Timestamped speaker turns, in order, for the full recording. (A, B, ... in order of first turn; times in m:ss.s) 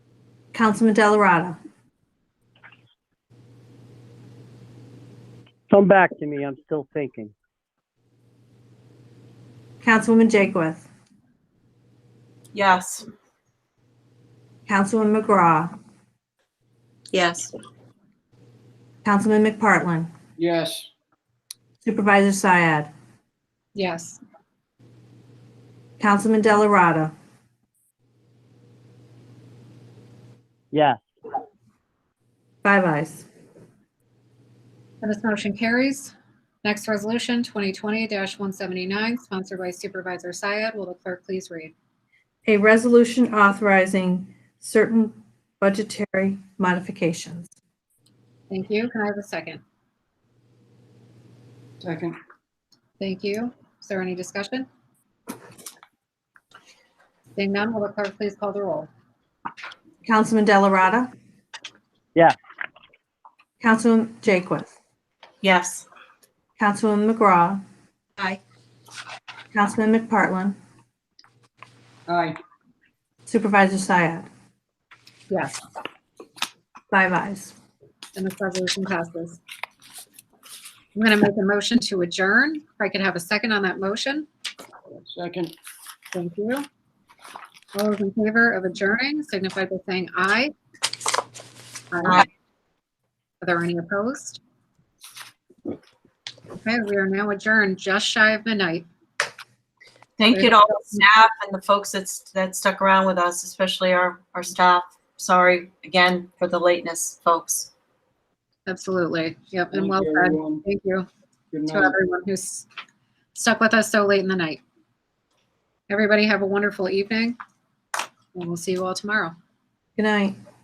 0:00.5-0:01.6 A
0:05.7-0:07.3 B
0:09.8-0:10.9 A
0:12.5-0:13.1 C
0:14.7-0:15.7 A
0:17.1-0:17.5 C
0:19.0-0:20.1 A
0:20.4-0:20.9 D
0:21.8-0:22.9 A
0:23.7-0:24.2 E
0:26.0-0:27.1 A
0:30.7-0:31.0 B
0:32.6-0:33.2 A
0:35.0-0:41.7 E
0:42.4-0:47.5 A
0:48.5-0:49.6 E
0:51.8-0:52.2 D
0:53.0-0:54.7 E
0:57.3-0:58.9 E
1:00.0-1:01.1 A
1:03.6-1:04.7 A
1:05.4-1:05.8 C
1:06.6-1:07.6 A
1:09.5-1:10.6 A
1:12.1-1:12.4 D
1:13.3-1:14.3 A
1:15.3-1:15.6 E
1:16.9-1:17.5 A
1:18.1-1:19.4 E
1:20.9-1:24.3 E
1:25.0-1:25.5 D
1:26.1-1:26.6 E
1:27.7-1:30.5 E
1:31.9-1:32.3 E
1:33.4-1:34.4 E
1:36.5-1:38.9 E
1:40.2-1:47.7 C
1:40.3-1:40.6 E
1:48.6-1:51.1 E
1:49.7-1:50.6 D
1:51.5-1:51.9 D
1:51.7-1:52.7 E
1:53.3-1:54.6 E
1:55.9-1:57.4 E
1:58.3-1:59.4 E
2:00.0-2:00.4 A